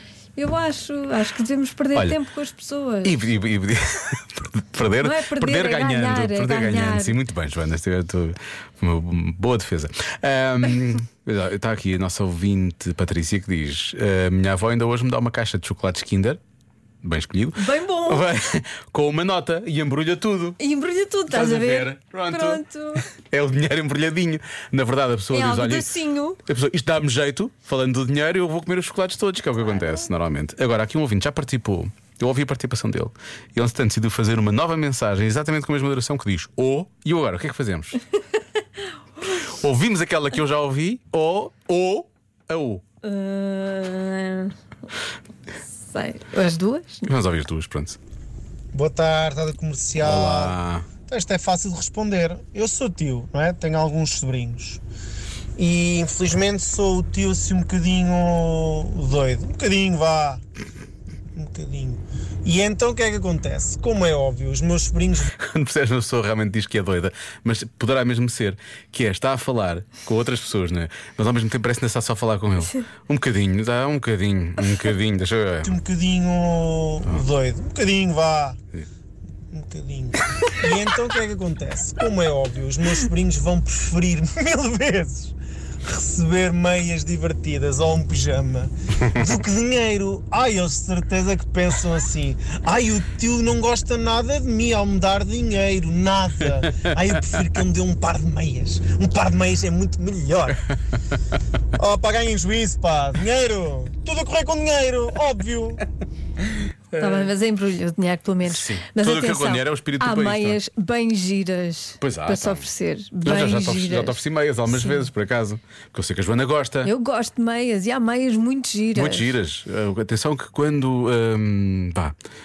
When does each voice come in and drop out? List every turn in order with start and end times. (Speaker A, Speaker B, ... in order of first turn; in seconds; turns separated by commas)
Speaker A: 0.4-3.2, Speaker B: 3.0-16.4, Speaker A: 5.0-7.2, Speaker B: 17.0-20.6, Speaker A: 17.6-18.3, Speaker A: 20.6-23.1, Speaker B: 21.3-38.0, Speaker A: 25.3-26.4, Speaker B: 39.4-42.8, Speaker A: 43.0-44.5, Speaker A: 45.9-47.1, Speaker B: 47.1-48.0, Speaker C: 48.7-54.8, Speaker B: 50.0-50.9, Speaker C: 55.6-60.4, Speaker C: 61.4-65.3, Speaker B: 65.4-75.8, Speaker C: 75.6-78.6, Speaker C: 79.5-100.6, Speaker C: 101.8-105.8, Speaker B: 107.0-107.3, Speaker A: 107.0-115.1, Speaker B: 108.4-110.6, Speaker B: 112.0-112.7, Speaker B: 113.2-116.9, Speaker A: 116.8-119.3, Speaker B: 118.9-122.2